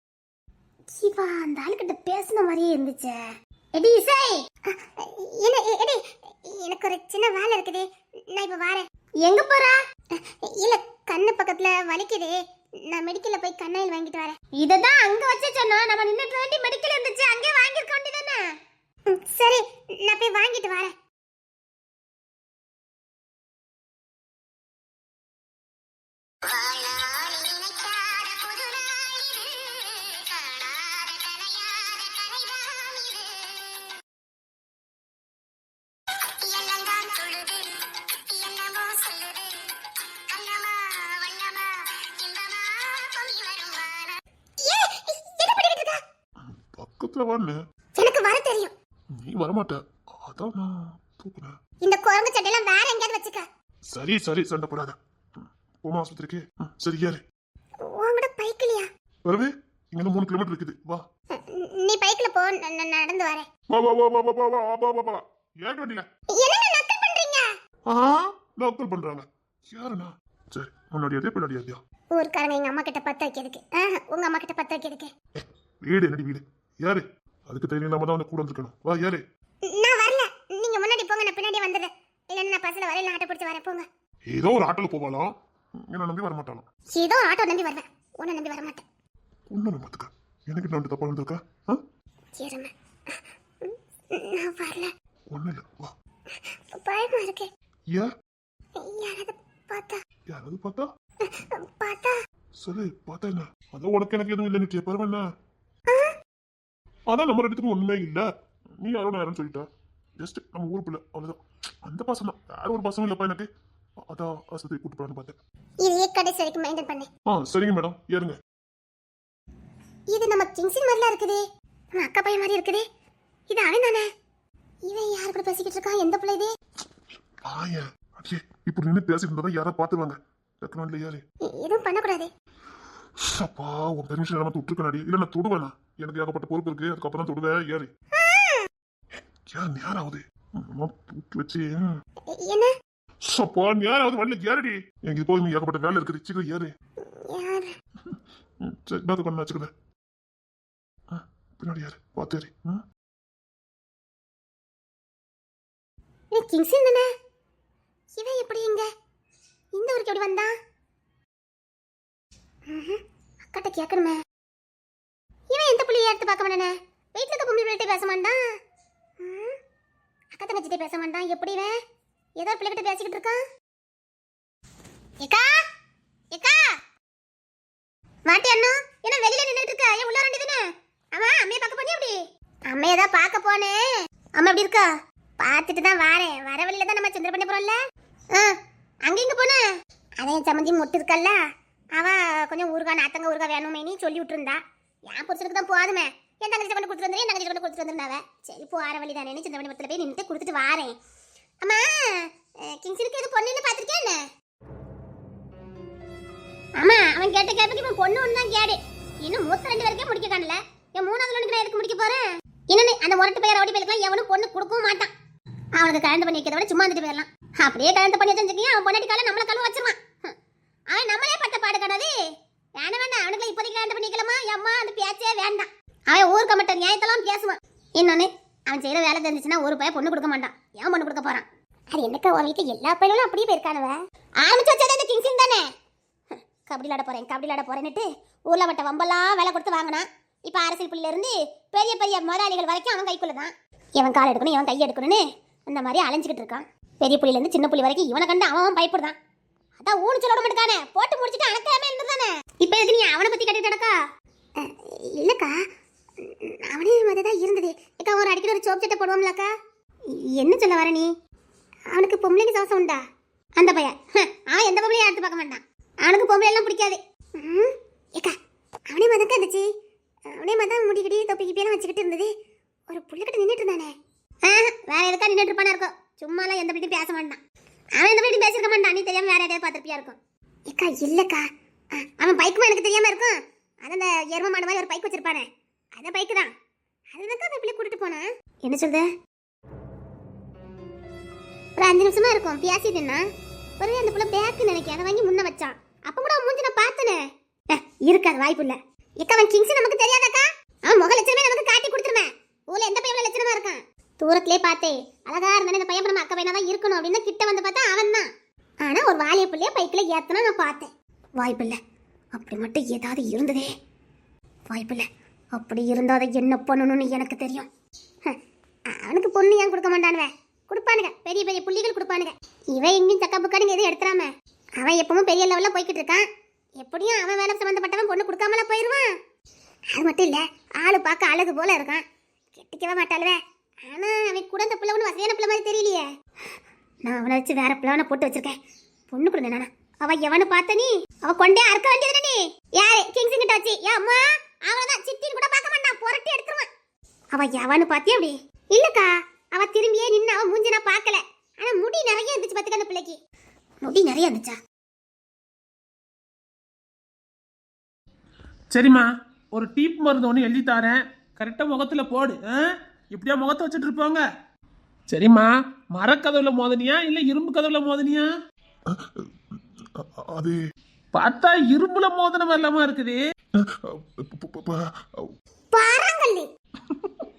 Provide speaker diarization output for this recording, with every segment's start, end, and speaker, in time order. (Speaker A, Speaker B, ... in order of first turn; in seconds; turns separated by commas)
Speaker A: 0.9-18.4, Speaker A: 19.1-20.9, Speaker A: 26.4-33.5, Speaker A: 36.2-44.1, Speaker A: 44.6-46.0, Speaker B: 46.4-47.6, Speaker A: 48.0-48.7, Speaker B: 49.2-51.5, Speaker A: 51.8-53.5, Speaker B: 53.9-57.2, Speaker A: 57.8-58.9, Speaker B: 59.2-61.0, Speaker A: 61.3-63.5, Speaker B: 63.7-66.0, Speaker A: 66.3-67.5, Speaker B: 67.9-71.8, Speaker A: 72.2-75.1, Speaker B: 75.4-79.2, Speaker A: 79.7-83.9, Speaker B: 84.3-85.3, Speaker B: 85.9-86.7, Speaker A: 86.9-88.8, Speaker B: 89.5-91.8, Speaker A: 92.4-94.9, Speaker B: 95.3-95.9, Speaker A: 96.7-97.5, Speaker A: 98.8-100.0, Speaker B: 100.3-100.9, Speaker A: 101.2-102.1, Speaker B: 102.6-105.2, Speaker B: 107.1-108.3, Speaker B: 108.8-109.7, Speaker B: 110.2-113.5, Speaker B: 114.0-115.4, Speaker A: 115.8-117.1, Speaker B: 117.3-118.4, Speaker A: 120.1-121.4, Speaker A: 122.0-122.8, Speaker A: 123.5-124.0, Speaker A: 124.9-126.5, Speaker B: 127.4-131.2, Speaker A: 131.4-132.3, Speaker B: 133.2-137.9, Speaker A: 138.1-138.7, Speaker B: 139.2-142.0, Speaker A: 142.3-142.7, Speaker B: 143.2-146.7, Speaker A: 147.0-147.7, Speaker B: 148.0-149.7, Speaker B: 151.1-152.8, Speaker A: 156.3-157.1, Speaker A: 158.1-158.9, Speaker A: 159.7-160.5, Speaker A: 162.7-164.2, Speaker A: 165.5-168.4, Speaker A: 169.2-169.6, Speaker A: 170.3-171.7, Speaker A: 172.4-173.4, Speaker A: 175.2-175.5, Speaker A: 176.3-176.7, Speaker A: 178.3-182.2, Speaker A: 182.7-183.8, Speaker A: 184.4-184.9, Speaker A: 185.4-187.8, Speaker A: 188.3-189.6, Speaker A: 190.2-191.4, Speaker A: 192.0-200.9, Speaker A: 201.6-204.3, Speaker A: 206.8-215.1, Speaker A: 215.8-220.3, Speaker A: 220.9-222.1, Speaker A: 222.8-235.7, Speaker A: 236.3-249.2, Speaker A: 249.8-253.9, Speaker A: 254.6-255.5, Speaker A: 256.2-259.5, Speaker A: 260.1-261.1, Speaker A: 261.9-263.0, Speaker A: 263.6-268.3, Speaker A: 268.9-269.7, Speaker A: 270.3-272.3, Speaker A: 272.9-277.4, Speaker A: 278.0-280.2, Speaker A: 280.7-286.5, Speaker A: 287.1-289.1, Speaker A: 291.8-293.2, Speaker A: 293.8-308.3, Speaker A: 308.8-311.8, Speaker A: 312.3-313.7, Speaker A: 314.7-317.7, Speaker A: 318.9-326.2, Speaker A: 326.8-329.1, Speaker A: 329.9-336.1, Speaker A: 337.0-338.6, Speaker A: 339.1-346.7, Speaker A: 347.3-353.2, Speaker A: 353.8-354.6, Speaker C: 358.7-364.2, Speaker C: 365.1-368.3, Speaker B: 368.9-370.6, Speaker C: 371.1-373.2, Speaker B: 373.5-375.3, Speaker A: 375.7-376.5